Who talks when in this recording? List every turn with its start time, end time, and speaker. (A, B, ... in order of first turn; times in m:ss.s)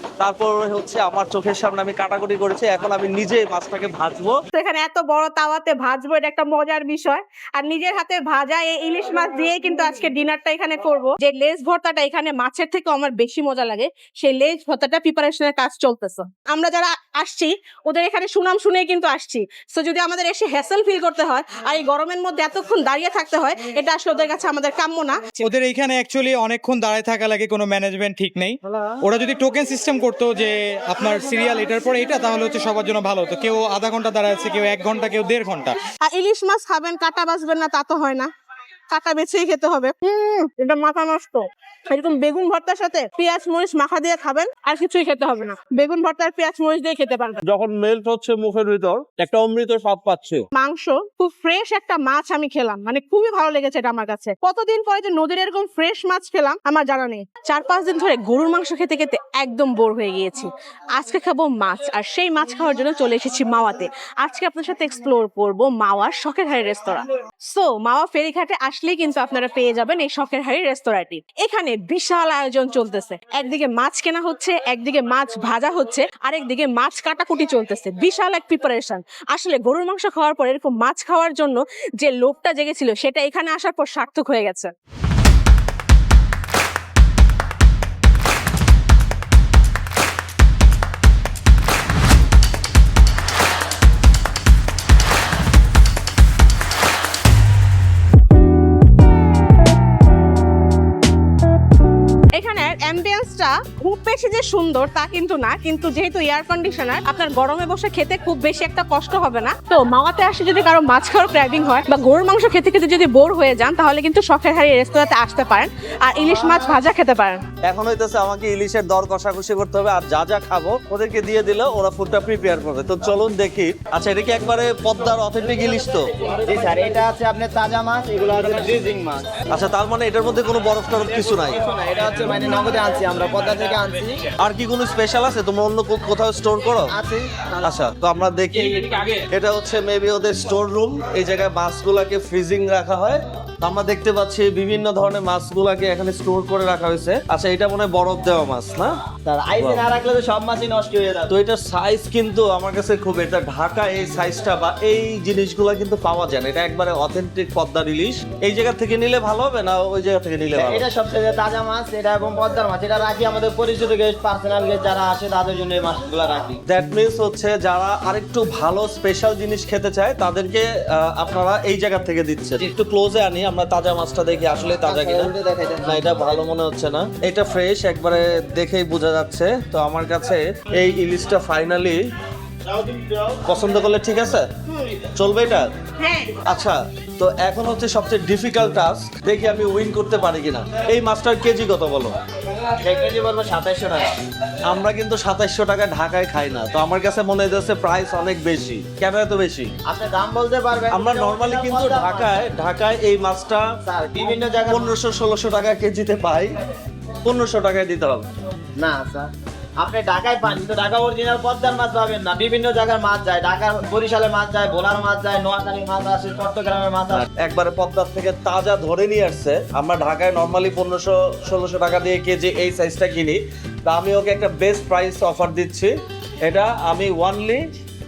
0:00.2-0:04.4 A
0:04.5-0:25.4 B
0:25.4-0:35.8 C
0:36.0-0:38.3 B
0:38.9-0:47.4 B
0:47.4-0:50.4 A
0:50.5-1:24.7 B
1:42.4-1:57.4 B
1:57.7-2:06.1 A
2:06.4-2:09.4 D
2:09.5-2:11.6 A
2:11.5-2:14.2 D
2:14.4-2:16.9 A
2:16.9-2:17.5 D
2:17.6-2:28.9 A
2:29.2-2:31.3 D
2:29.6-2:29.8 A
2:31.3-2:40.8 A
2:40.5-2:46.6 D
2:46.7-3:02.0 A
2:54.8-2:56.0 D
3:02.8-3:05.7 A
3:06.0-3:06.4 B
3:06.4-3:12.2 A
3:12.8-3:14.1 D
3:14.7-3:19.7 A
3:19.8-3:22.4 D
3:20.9-3:23.6 A
3:23.8-3:25.0 D
3:24.7-3:26.5 A
3:27.2-3:28.3 A
3:28.8-3:29.3 D
3:29.8-3:37.2 D
3:37.1-3:45.9 A
3:46.4-3:47.6 A